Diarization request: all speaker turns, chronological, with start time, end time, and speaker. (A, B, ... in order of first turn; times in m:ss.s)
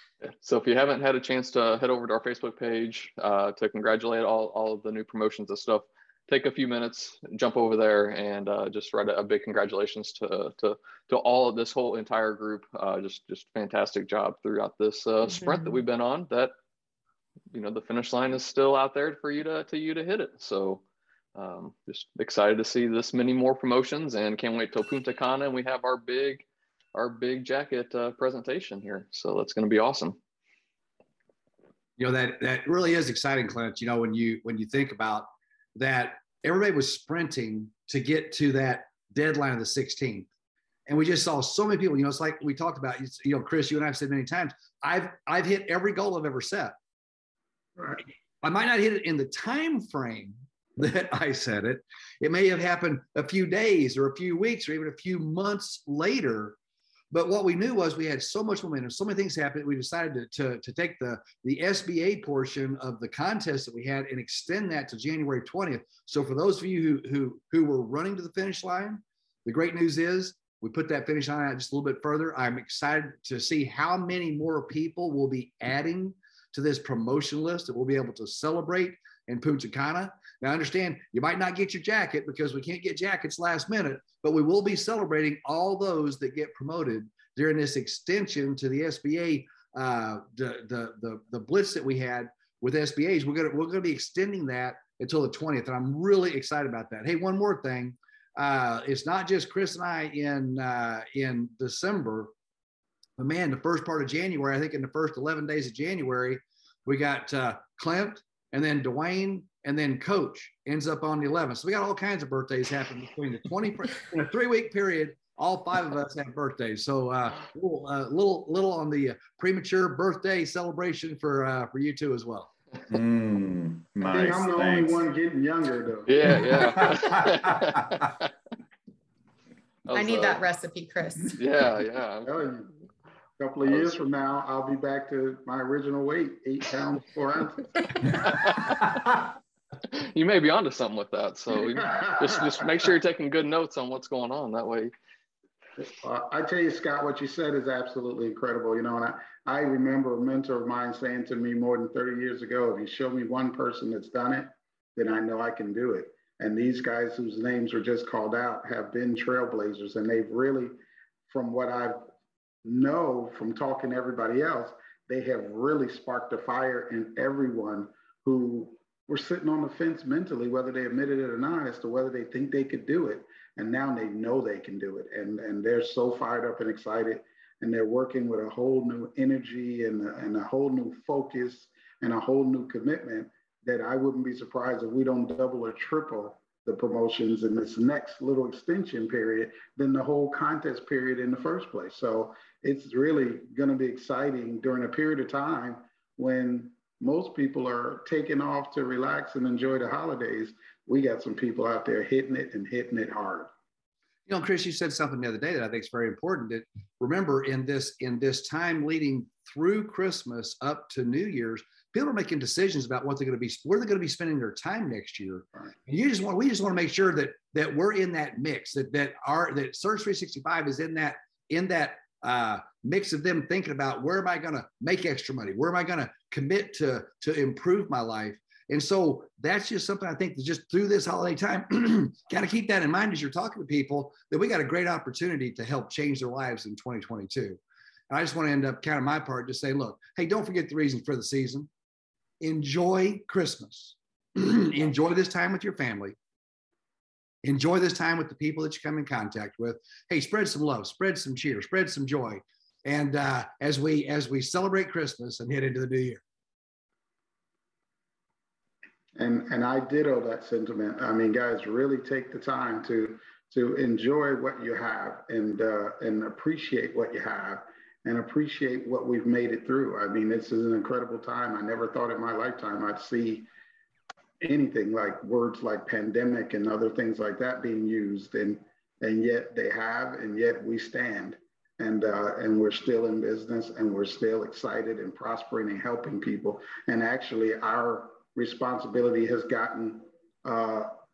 0:00.2-0:16.5 A
0:15.3-0:15.8 B
0:17.5-0:20.8 A
0:21.4-0:30.2 A
0:32.0-0:40.3 C
0:40.9-0:46.8 C
0:48.4-0:56.6 C
0:57.1-1:42.3 C
1:43.2-2:02.5 C
2:02.9-2:05.0 D
2:04.0-2:06.4 E
2:06.1-2:08.1 A
2:06.6-2:07.7 D
2:09.8-2:10.4 A
2:09.9-2:11.4 B
2:11.4-2:12.3 A
2:12.2-2:12.7 E
2:13.4-2:18.3 E
2:13.6-2:14.0 A
2:18.2-2:19.0 A
2:19.9-2:24.9 A
2:21.9-2:22.3 E
2:25.8-2:40.7 E
2:41.3-2:42.0 E
2:42.6-3:23.5 E
3:24.3-3:57.6 C
3:58.1-4:01.7 C
4:02.4-4:06.2 C
4:07.4-4:16.2 C
4:19.2-4:33.5 E
4:34.4-4:51.0 E